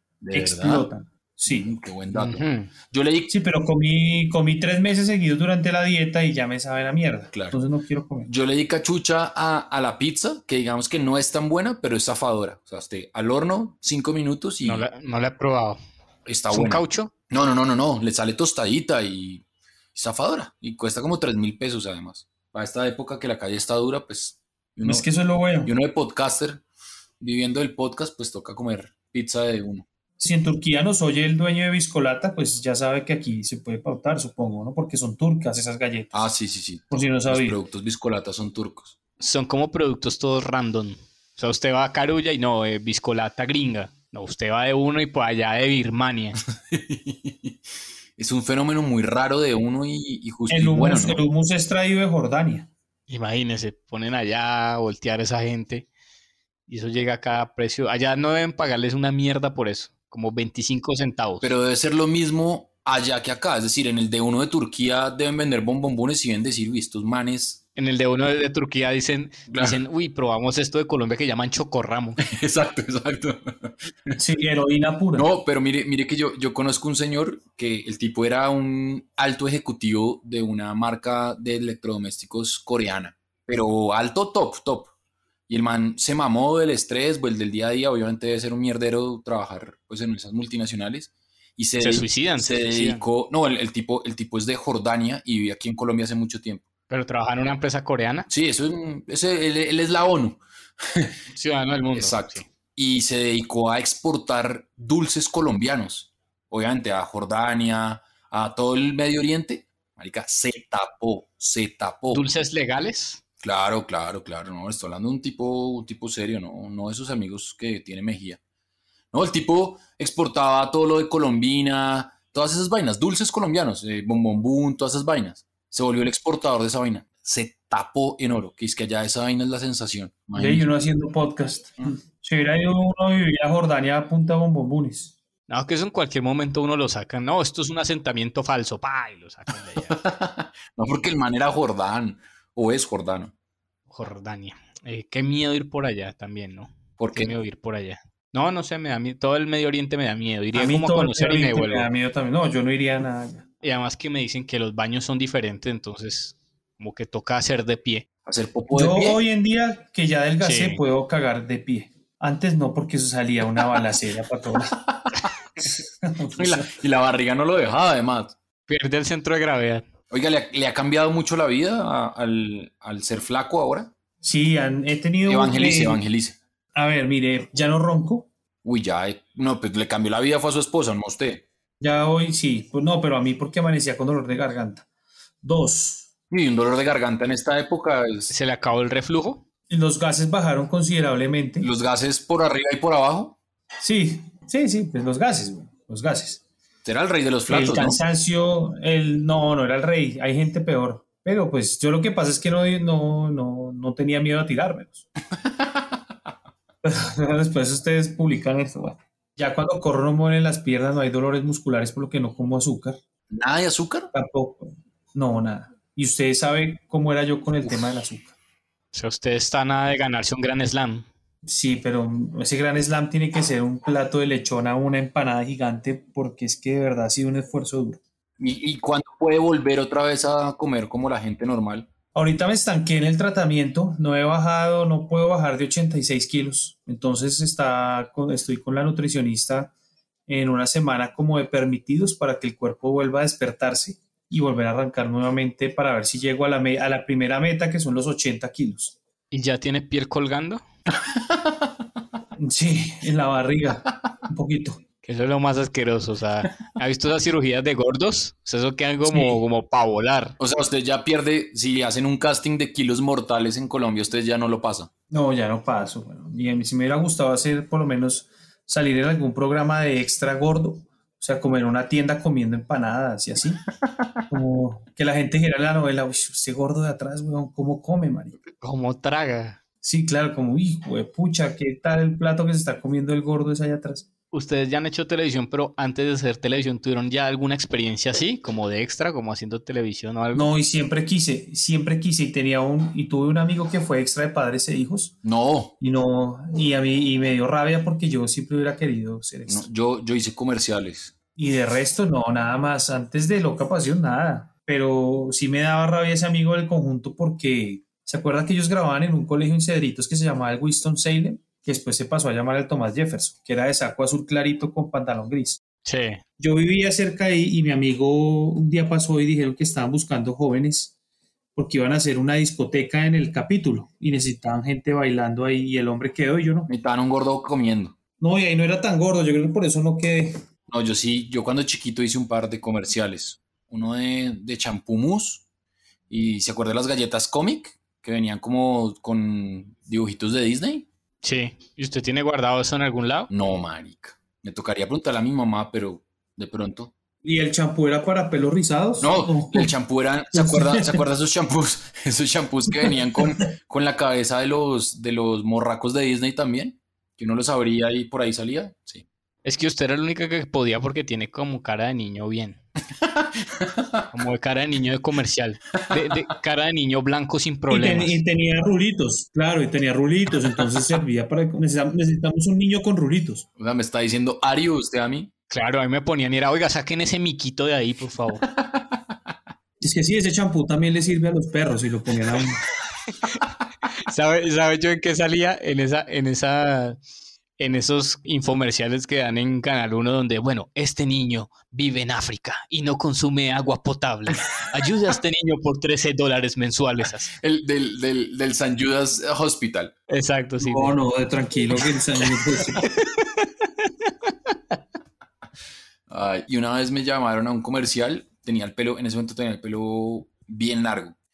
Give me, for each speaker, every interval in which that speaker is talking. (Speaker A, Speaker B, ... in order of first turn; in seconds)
Speaker A: 0.2-0.9, 1.4-3.3, 7.3-7.6, 8.3-14.8, 16.2-19.4, 19.9-25.1, 25.6-26.6, 27.2-29.8, 36.1-38.9, 46.7-47.6, 48.2-51.2, 61.4-67.6, 69.5-69.8, 72.2-74.1, 75.1-84.9, 85.5-96.6, 98.3-101.1, 102.0-112.3, 113.4-118.4, 119.1-130.7, 139.8-143.3, 147.0-147.3, 158.2-159.2, 164.7-165.3, 166.3-168.3, 170.1-173.9, 175.2-176.4, 178.6-181.4, 186.3-188.3, 191.6-193.3, 196.8-198.0, 213.3-214.1, 228.4-231.9, 251.1-251.4, 260.4-264.9, 295.2-295.7, 299.5-301.1, 326.7-327.9, 330.7-335.4, 336.1-340.9, 343.3-346.9, 349.0-359.0, 363.6-363.9, 373.6-375.3, 378.4-378.8, 397.4-399.9, 406.1-411.1
Speaker B: 0.3-1.7, 3.3-8.3, 24.8-25.7, 30.2-36.1, 36.9-37.6, 50.5-52.7, 74.2-75.3, 130.3-135.1, 150.5-153.4, 158.7-164.7, 166.0-166.7, 174.2-176.0, 176.7-178.3, 181.8-184.8, 185.4-186.1, 189.7-191.7, 193.8-196.4, 197.5-205.0, 206.8-213.0, 214.1-218.3, 221.4-228.0, 232.1-239.7, 240.3-248.9, 252.4-254.8, 265.1-273.6, 274.3-278.4, 279.8-284.1, 290.3-295.1, 295.8-299.7, 301.4-315.6, 316.4-320.9, 321.6-326.7, 328.2-330.3, 347.2-349.7, 350.3-351.0, 352.8-353.2, 367.7-373.5, 379.8-382.6, 400.6-402.9
Speaker C: 2.1-2.7, 14.6-15.8, 16.5-17.1, 39.2-46.4, 53.1-55.9, 56.7-61.5, 67.8-72.2, 91.8-93.0, 96.9-98.3, 101.3-102.5, 112.1-113.2, 135.5-140.0, 143.9-151.9, 153.6-158.1, 160.4-160.8, 168.7-169.8, 188.3-189.4, 218.9-221.1, 249.3-250.6, 255.0-260.4, 278.6-279.6, 284.3-290.5, 315.8-316.2, 341.2-343.3, 359.4-362.6, 364.1-368.2, 375.5-378.4, 383.1-383.4, 384.0-387.0, 387.6-397.3, 400.1-400.9, 403.0-404.5